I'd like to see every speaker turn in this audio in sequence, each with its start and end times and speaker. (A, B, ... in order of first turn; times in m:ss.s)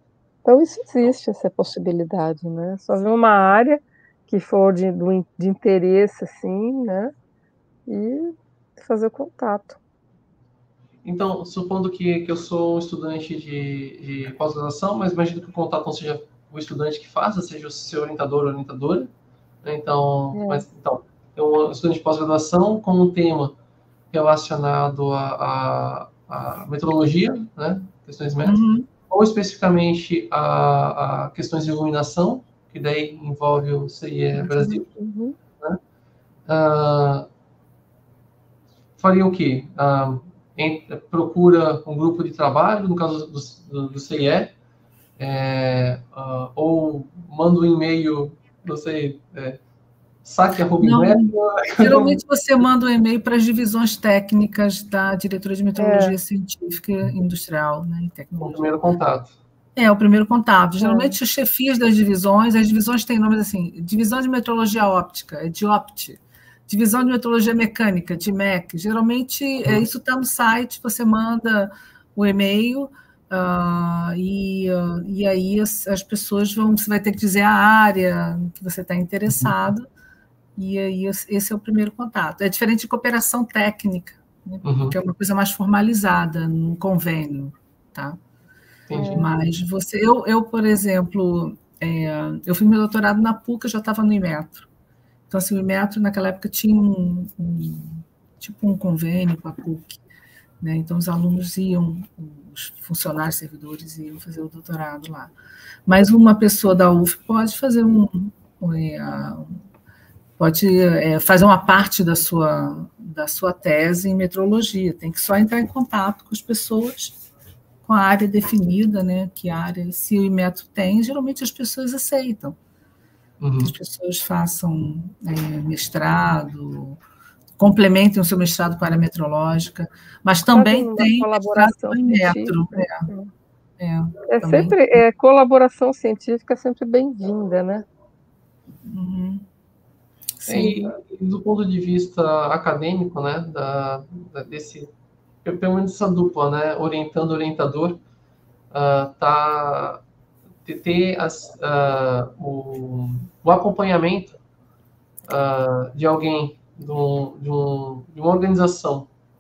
0:00.4-0:07.1 A
0:07.9-0:09.8 A
0:11.0-0:19.1 B
0:19.6-0:23.6 B
0:20.3-0:20.6 A
0:24.1-0:28.6 B
0:28.4-0:28.9 C
0:29.1-0:34.9 B
0:34.4-0:34.7 C
0:34.9-0:35.4 A
0:36.5-0:37.3 B
0:39.0-0:44.5 B
0:45.2-0:49.6 B
0:50.2-0:52.2 B
0:50.8-0:58.7 C
0:55.8-0:56.2 A
0:58.4-0:59.4 B
0:59.8-1:19.9 C
1:00.8-1:01.2 A
1:20.6-1:28.2 C
1:24.6-1:25.0 B
1:28.9-1:29.2 B
1:28.9-1:29.3 A
1:29.0-1:34.7 C
1:35.3-1:40.0 C
1:40.6-1:45.3 C
1:45.9-1:49.6 C
1:50.4-1:57.2 C
1:57.8-2:02.6 C
2:03.4-2:03.7 B
2:03.6-2:07.0 C
2:07.6-2:13.1 C
2:10.5-2:13.3 A
2:13.8-2:15.0 C
2:14.3-2:17.9 A
2:18.8-2:19.5 C
2:20.4-2:20.9 C
2:20.5-2:24.9 B
2:25.4-2:28.0 B
2:28.7-2:30.0 B
2:30.6-2:34.4 B
2:35.3-2:39.1 B